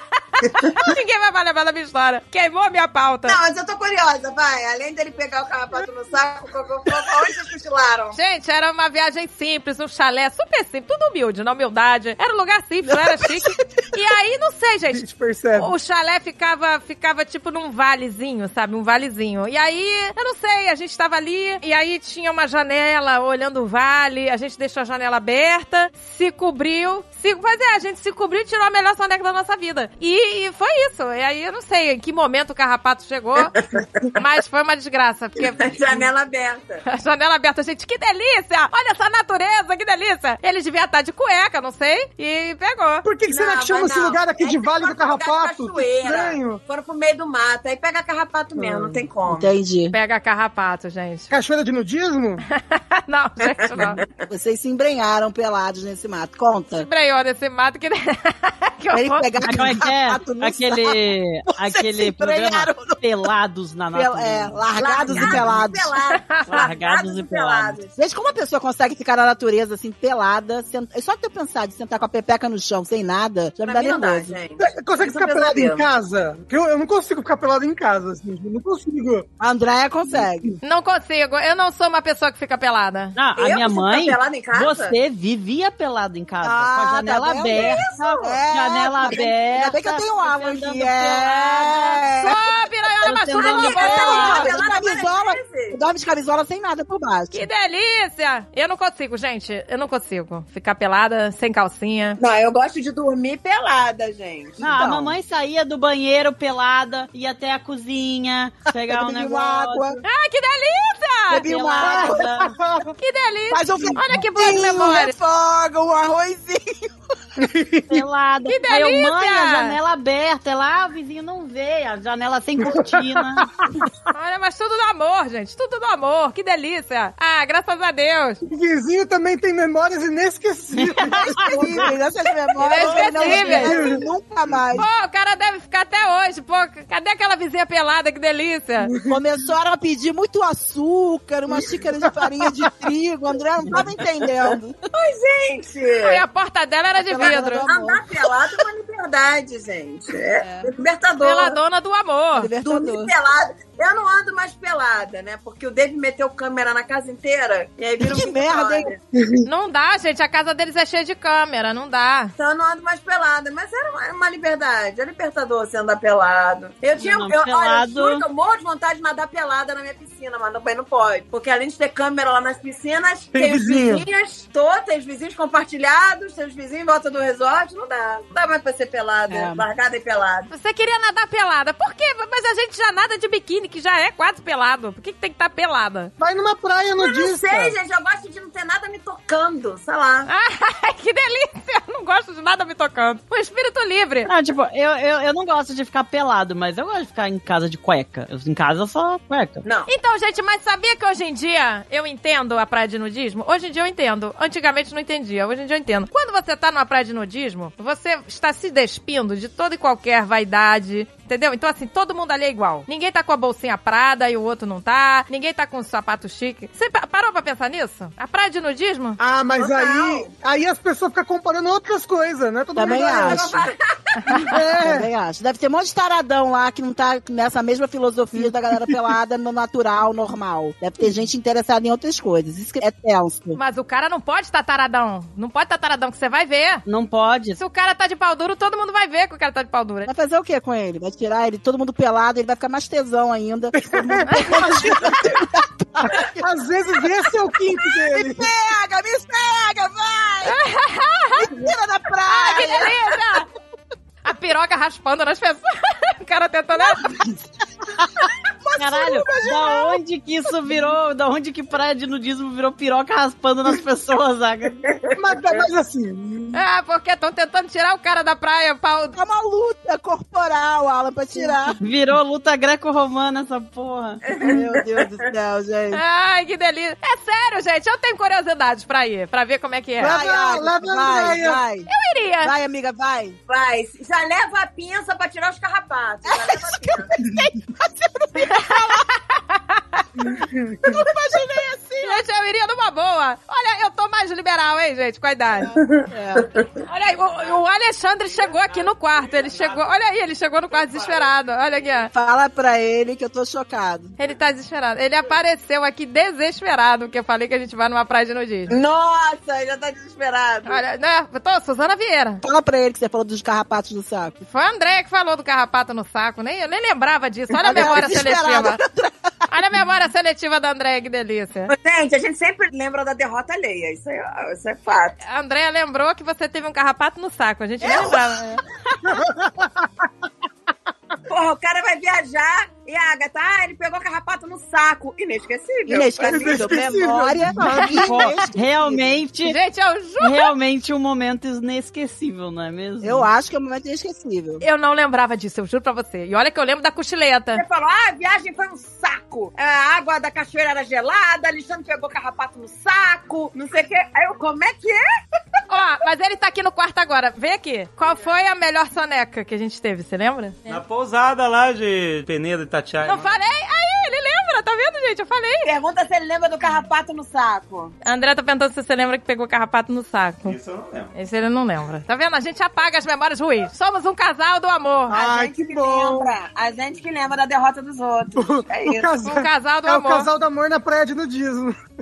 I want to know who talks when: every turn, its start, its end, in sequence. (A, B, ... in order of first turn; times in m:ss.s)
0:00.3-0:03.4 A
0:03.2-0:08.2 B
0:08.1-0:33.5 A
0:14.9-0:15.7 C
0:33.6-0:34.1 B
0:34.1-0:36.1 A
0:35.6-0:36.8 B
0:36.8-0:43.0 A
0:43.0-0:46.6 C
0:43.3-0:49.5 B
0:48.6-0:49.0 C
0:49.3-0:50.0 D
0:49.9-0:51.3 A
0:51.3-0:52.4 C
0:52.5-0:54.0 A
0:53.4-0:54.0 B
0:54.2-0:56.9 D
0:56.7-0:59.6 A
0:58.9-1:03.3 D
0:59.4-1:04.6 E
1:03.9-1:05.9 D
1:04.8-1:07.9 B
1:05.1-1:05.4 E
1:06.1-1:06.7 A
1:06.5-1:07.8 E
1:08.0-1:14.3 D
1:13.6-1:15.9 B
1:14.6-1:19.3 C
1:19.4-1:20.5 D
1:20.6-1:23.1 A
1:23.1-1:32.0 E
1:23.4-1:24.9 B
1:26.4-1:32.4 D
1:27.5-1:28.4 B
1:32.2-1:34.4 A
1:33.0-1:37.4 D
1:33.0-1:34.6 E
1:33.5-1:35.8 B
1:37.3-1:42.2 A
1:42.2-1:44.6 B
1:44.6-1:45.2 D
1:44.6-1:50.0 E
1:48.9-1:50.0 D
1:50.0-1:51.5 A
1:51.3-1:52.2 D
1:51.4-1:52.5 E
1:51.8-1:52.9 C
1:53.0-1:55.1 A
1:53.5-1:56.9 D
1:57.4-1:58.0 C
1:57.9-2:03.5 E
1:58.4-1:59.8 A
2:02.6-2:03.9 C
2:04.1-2:08.4 A
2:08.4-2:11.9 C
2:10.8-2:11.3 E
2:11.2-2:14.9 D
2:12.6-2:13.8 A
2:13.1-2:14.0 C
2:14.7-2:18.9 A
2:19.1-2:24.8 D
2:24.9-2:26.2 B
2:26.0-2:27.7 A
2:27.0-2:28.0 D
2:27.0-2:31.6 B
2:30.4-2:30.7 D
2:31.2-2:32.5 A
2:32.3-2:33.1 D
2:32.6-2:39.0 B
2:38.0-2:38.9 D
2:39.4-2:42.3 A
2:42.4-3:00.5 B
2:47.0-2:48.2 E
2:53.3-2:54.0 C
2:59.3-2:59.6 D
3:00.5-3:06.1 A
3:06.2-3:07.8 C
3:07.0-3:10.3 B
3:10.3-3:14.3 A
3:14.2-3:19.6 E
3:19.6-3:19.9 B
3:19.9-3:39.2 A
3:39.2-3:43.7 C
3:39.5-3:40.3 B
3:42.7-3:43.6 D
3:42.8-3:44.5 B
3:44.3-3:45.1 C
3:44.5-3:53.6 D
3:48.3-3:48.9 C
3:53.6-3:56.8 A
3:56.8-3:57.6 E
3:57.6-4:00.1 A
4:00.0-4:06.4 D
4:03.8-4:05.4 C
4:04.3-4:04.6 A
4:06.0-4:08.5 C
4:07.8-4:10.6 D
4:10.4-4:11.5 A
4:11.4-4:13.4 D
4:12.3-4:13.5 A
4:14.2-4:17.1 A
4:17.0-4:17.3 D
4:18.6-4:20.0 D
4:18.8-4:24.8 E
4:24.9-4:25.6 B
4:25.2-4:26.6 C
4:26.5-4:29.2 A
4:29.1-4:31.8 D
4:31.8-4:34.2 E
4:34.3-4:35.0 B
4:34.4-4:36.0 D
4:35.9-4:40.2 A
4:40.0-4:41.6 C
4:40.0-4:41.9 D
4:41.9-4:42.5 A
4:42.4-4:43.4 D
4:43.5-4:47.1 B
4:46.2-4:49.0 D
4:48.4-4:50.0 A
4:50.2-4:51.0 C
4:50.8-4:52.2 D
4:52.0-4:55.7 A
4:55.7-4:56.6 B
4:56.1-4:56.5 D
4:56.8-5:02.1 A
4:58.4-5:00.0 F
5:00.7-5:01.3 F
5:02.1-5:04.1 D
5:04.2-5:08.7 A
5:08.7-5:10.8 B
5:10.6-5:12.4 A
5:12.4-5:14.4 D
5:14.5-5:18.8 A
5:17.6-5:19.5 D
5:19.5-5:21.7 A
5:21.7-5:25.2 B
5:25.2-5:28.5 A
5:27.8-5:28.6 D
5:29.0-5:29.9 C
5:31.3-5:37.3 B
5:35.9-5:39.2 D
5:36.2-5:38.4 C
5:37.8-5:39.6 E
5:39.4-5:40.5 A
5:40.2-5:43.3 E
5:43.0-5:44.6 D
5:44.6-5:47.6 A
5:47.5-5:55.0 B
5:55.7-6:00.8 A
6:00.6-6:03.4 F
6:03.0-6:05.7 A
6:05.6-6:07.9 B
6:08.0-6:10.6 A
6:10.4-6:11.1 F
6:11.1-6:15.2 A
6:15.1-6:16.4 C
6:15.1-6:19.1 B
6:18.4-6:21.7 C
6:19.2-6:20.3 A